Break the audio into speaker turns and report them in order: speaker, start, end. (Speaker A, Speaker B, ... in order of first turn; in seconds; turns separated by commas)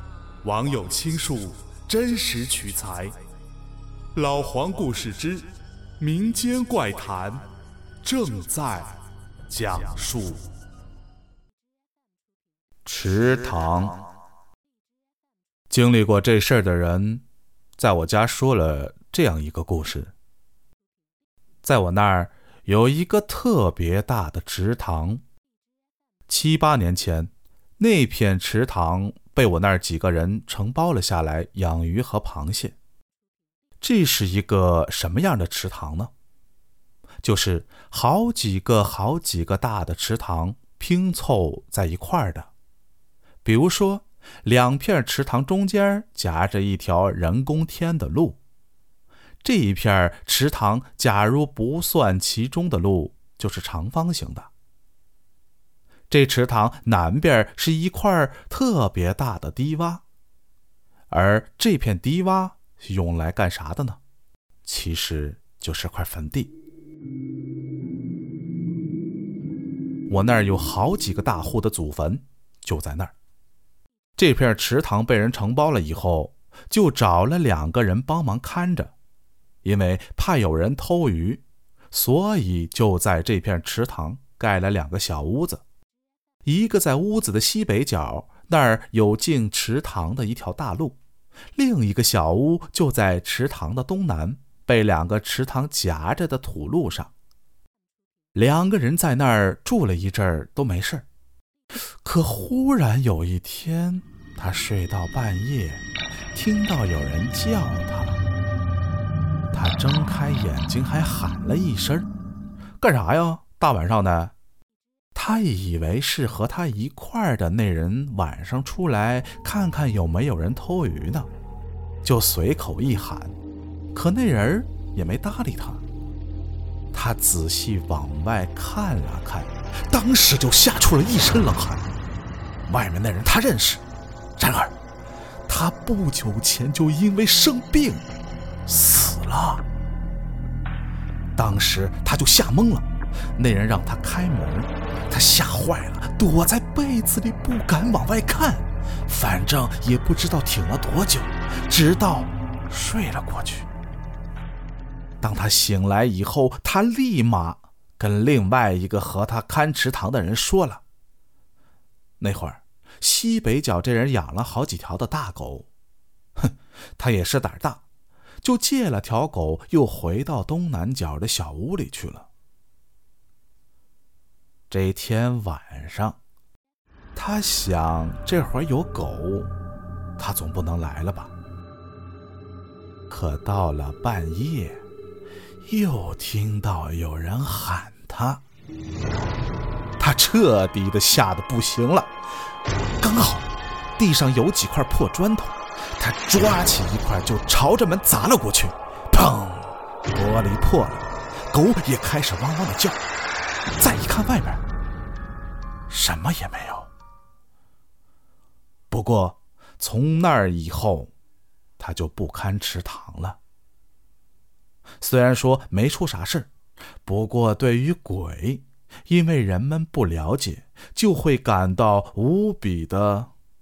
Speaker A: 0.4-3.1, Speaker A: 4.1-7.5, Speaker A: 8.0-10.5, Speaker A: 12.8-14.0, Speaker A: 15.7-17.2, Speaker A: 17.8-20.1, Speaker A: 21.6-25.2, Speaker A: 26.3-32.8, Speaker A: 33.8-36.1, Speaker A: 37.2-42.5, Speaker A: 43.4-48.4, Speaker A: 49.4-54.5, Speaker A: 56.1-60.0, Speaker A: 61.1-64.0, Speaker A: 64.6-66.5, Speaker A: 70.1-73.1, Speaker A: 74.2-78.9, Speaker A: 79.6-85.6, Speaker A: 86.4-91.0, Speaker A: 91.5-97.1, Speaker A: 98.3-101.0, Speaker A: 102.0-108.2, Speaker A: 109.5-112.1, Speaker A: 112.8-114.3, Speaker A: 115.1-121.3, Speaker A: 122.0-123.3, Speaker A: 123.9-125.8, Speaker A: 126.9-131.9, Speaker A: 132.7-133.8, Speaker A: 134.4-134.7, Speaker A: 135.5-138.1, Speaker A: 138.7-139.6, Speaker A: 141.3-153.7, Speaker A: 155.2-160.8, Speaker A: 162.2-165.7, Speaker A: 166.4-167.8, Speaker A: 168.4-172.3, Speaker A: 174.7-176.2, Speaker A: 177.1-179.5, Speaker A: 180.2-181.3, Speaker A: 183.1-184.8, Speaker A: 185.7-188.4, Speaker A: 190.0-192.1, Speaker A: 193.0-203.0, Speaker A: 203.8-204.6, Speaker A: 205.9-206.9, Speaker A: 208.9-211.1, Speaker A: 211.8-213.4, Speaker A: 215.0-216.5, Speaker A: 217.0-223.3